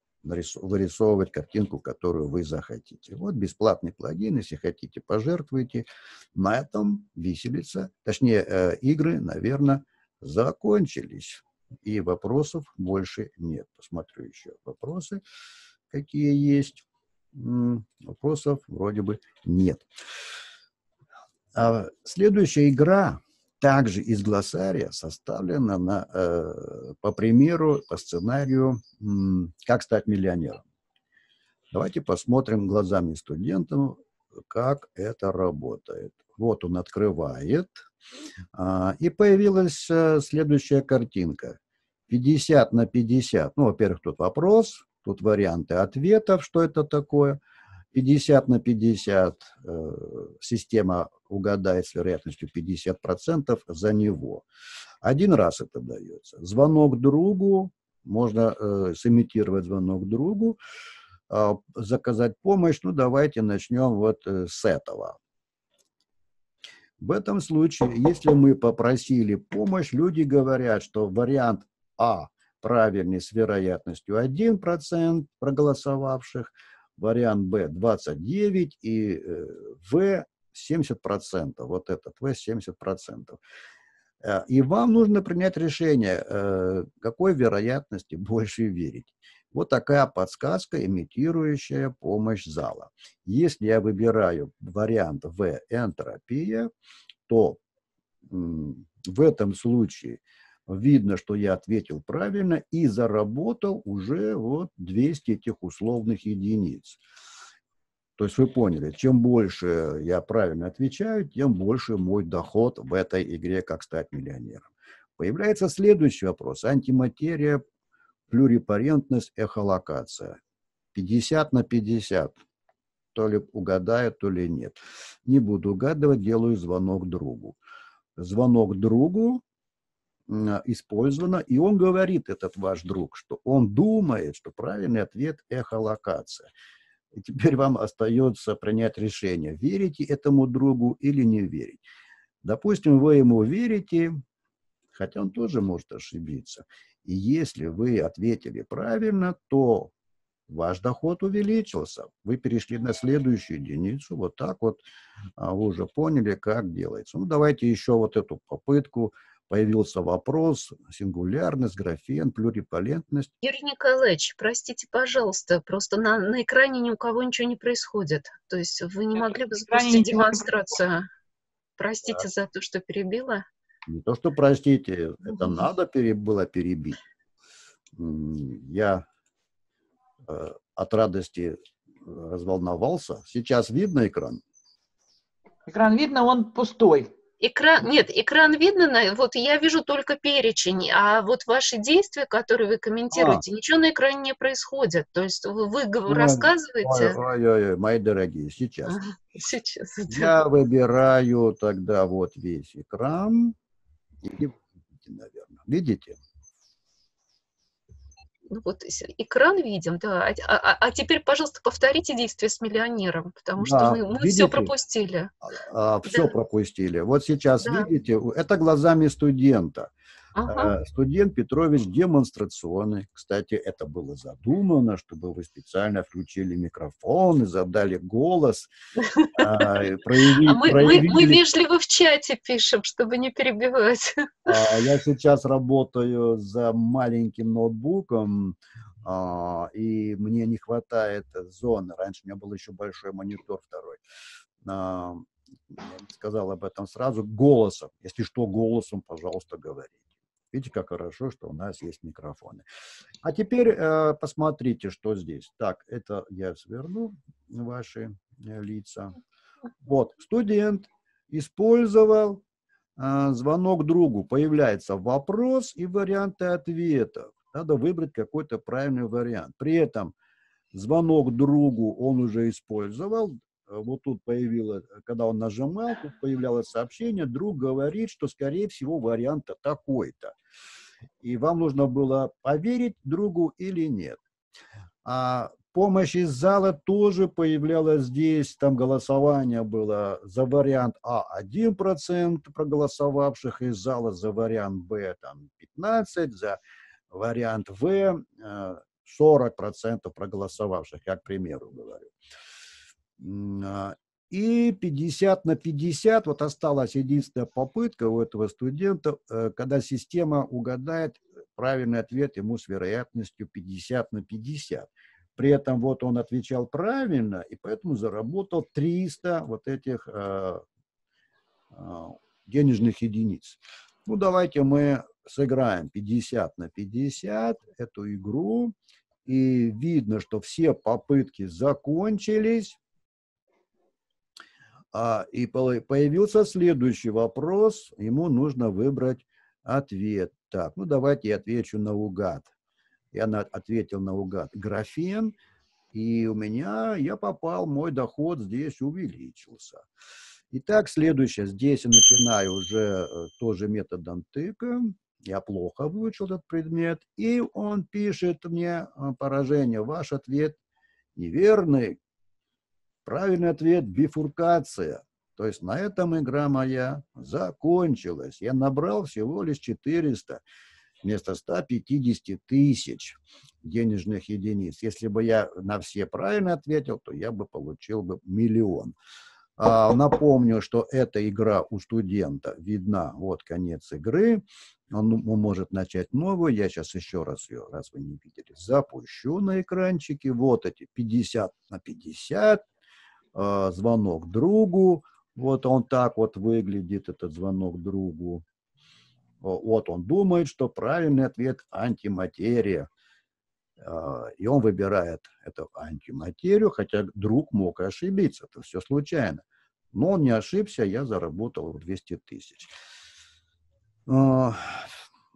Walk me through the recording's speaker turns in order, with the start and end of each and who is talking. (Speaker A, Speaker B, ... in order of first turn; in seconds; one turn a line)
Speaker A: 0.2-15.2
Speaker A: 15.9-16.8
Speaker A: 17.3-19.8
Speaker A: 21.5-30.6
Speaker A: 31.7-37.8
Speaker A: 38.5-41.6
Speaker A: 42.1-47.4
Speaker A: 47.9-54.4
Speaker A: 55.0-60.6
Speaker A: 61.3-65.2
Speaker A: 67.0-83.4
Speaker A: 84.2-96.7
Speaker A: 97.3-97.6
Speaker A: 98.3-107.0
Speaker A: 108.2-117.6
Speaker A: 118.3-120.4
Speaker A: 120.9-122.4
Speaker A: 123.1-127.6
Speaker A: 128.2-129.4
Speaker A: 130.3-136.5
Speaker A: 137.1-141.8
Speaker A: 142.4-144.2
Speaker A: 144.9-149.9
Speaker A: 150.5-154.8
Speaker A: 155.4-163.3
Speaker B: 163.4-171.1
Speaker C: 169.2-170.6
Speaker B: 171.8-173.4
Speaker A: 173.9-177.0
Speaker A: 178.0-179.0
Speaker A: 180.2-184.4
Speaker C: 185.7-187.1
Speaker B: 187.4-197.2
Speaker A: 193.1-193.4
Speaker A: 196.1-199.0
Speaker B: 198.8-200.3
Speaker A: 200.1-203.6
Speaker A: 204.2-206.2
Speaker B: 208.5-215.3
Speaker A: 213.6-214.7
Speaker A: 215.4-219.9
Speaker B: 216.1-216.3
Speaker B: 217.6-217.9
Speaker B: 220.3-220.7
Speaker A: 220.5-228.7
Speaker B: 229.1-234.8
Speaker A: 229.4-231.4
Speaker A: 234.4-244.0
Speaker A: 244.6-250.0
Speaker A: 250.5-252.6
Speaker A: 253.2-259.1
Speaker A: 259.8-262.4
Speaker A: 263.0-270.1
Speaker A: 270.7-280.3
Speaker A: 281.2-284.2
Speaker A: 285.0-296.6
Speaker A: 297.1-302.1
Speaker A: 303.2-320.6
Speaker A: 321.7-328.7
Speaker A: 329.2-332.8
Speaker A: 334.9-342.5
Speaker A: 343.1-345.3
Speaker A: 345.9-349.8
Speaker A: 350.5-360.6
Speaker A: 361.1-362.0
Speaker A: 363.0-370.4
Speaker A: 371.0-378.9
Speaker A: 379.6-392.6
Speaker A: 393.3-398.4
Speaker A: 399.4-402.9
Speaker A: 403.8-412.7
Speaker A: 414.1-414.9